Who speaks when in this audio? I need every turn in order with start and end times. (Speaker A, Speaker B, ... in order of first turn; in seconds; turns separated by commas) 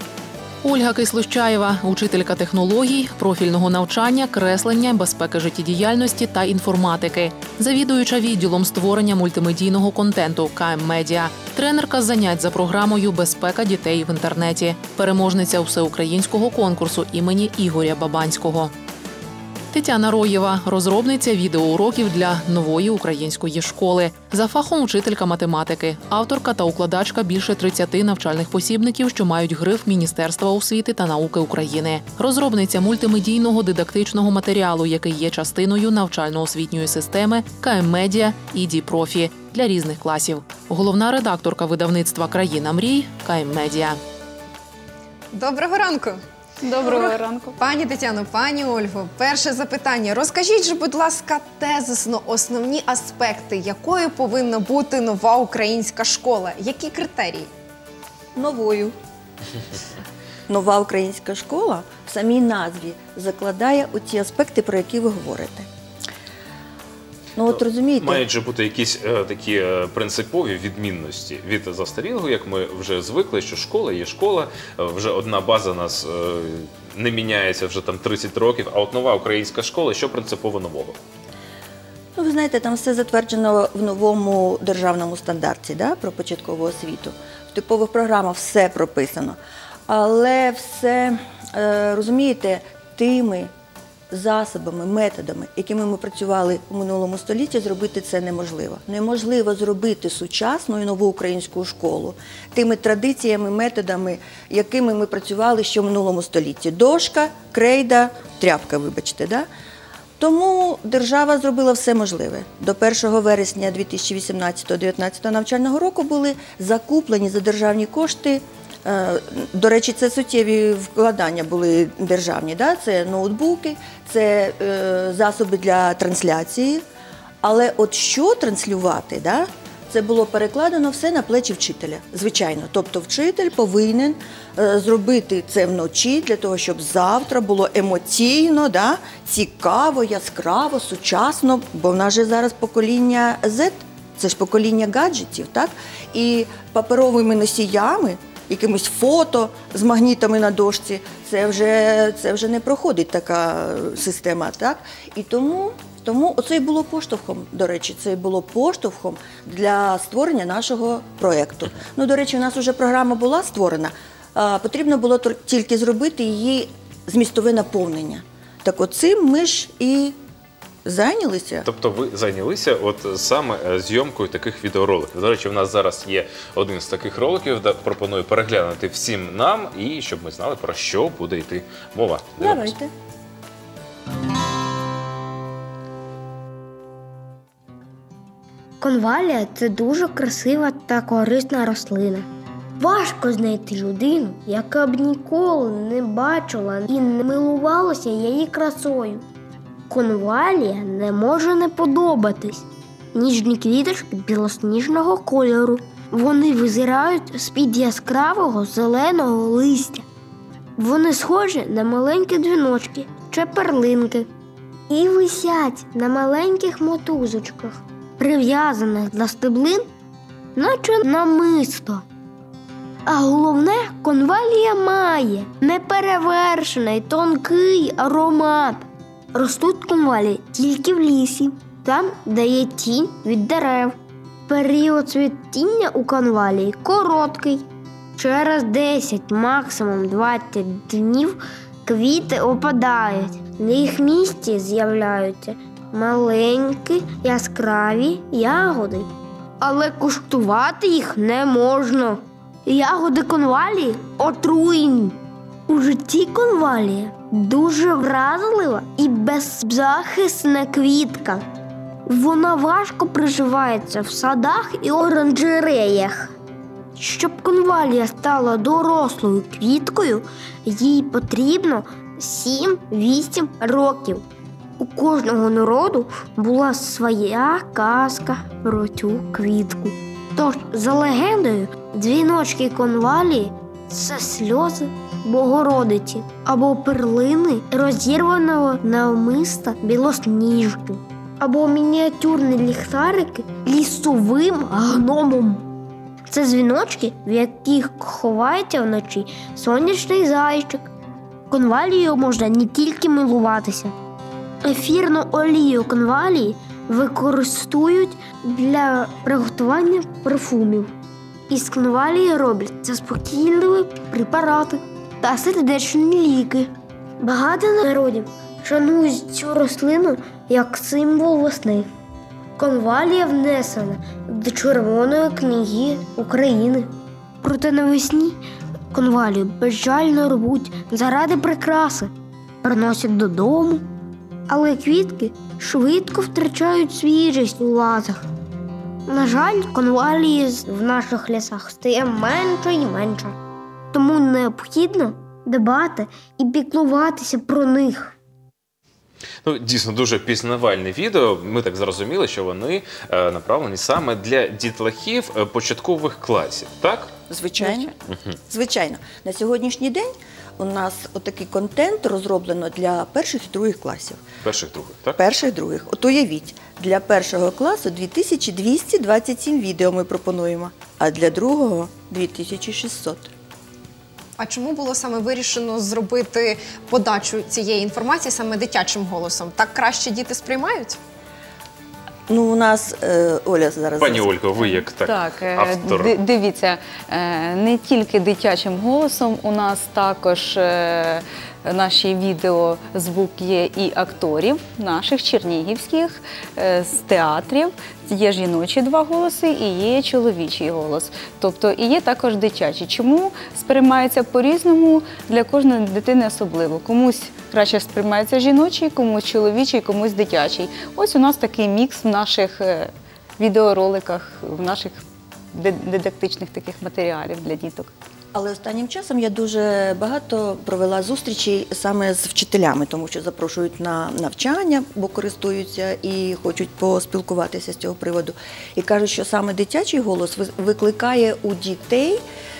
Speaker A: 0.6-18.7, Speaker A: 19.7-44.0, Speaker B: 45.3-46.2, Speaker C: 46.6-47.6, Speaker B: 46.8-57.5, Speaker D: 58.4-58.9, Speaker D: 60.5-65.7, Speaker D: 67.3-68.2, Speaker E: 67.5-81.0, Speaker D: 82.1-93.5, Speaker D: 94.1-109.5, Speaker D: 110.2-126.8, Speaker D: 127.4-170.2, Speaker D: 170.8-171.7, Speaker E: 171.6-182.7, Speaker D: 182.4-182.9, Speaker F: 188.8-192.3, Speaker F: 192.8-199.2, Speaker F: 199.9-210.0, Speaker F: 210.8-214.3, Speaker F: 214.9-219.9, Speaker F: 220.6-222.0, Speaker F: 223.1-228.8, Speaker F: 229.3-233.9, Speaker F: 234.5-261.4, Speaker F: 262.1-266.3, Speaker F: 267.0-274.2, Speaker F: 274.8-295.7, Speaker F: 296.3-300.9, Speaker F: 301.5-303.9, Speaker F: 304.6-310.9, Speaker F: 311.5-321.9, Speaker F: 322.6-328.4, Speaker F: 328.9-333.8, Speaker F: 334.5-338.2, Speaker F: 339.1-343.3, Speaker F: 343.9-348.1, Speaker E: 349.4-357.1, Speaker D: 357.3-357.9, Speaker C: 357.6-357.9, Speaker D: 358.5-364.2, Speaker E: 364.4-365.2, Speaker D: 365.2-373.3, Speaker B: 374.4-381.0, Speaker D: 382.3-384.3, Speaker E: 384.0-386.1, Speaker C: 384.6-415.0, Speaker C: 415.5-417.9, Speaker D: 418.3-432.2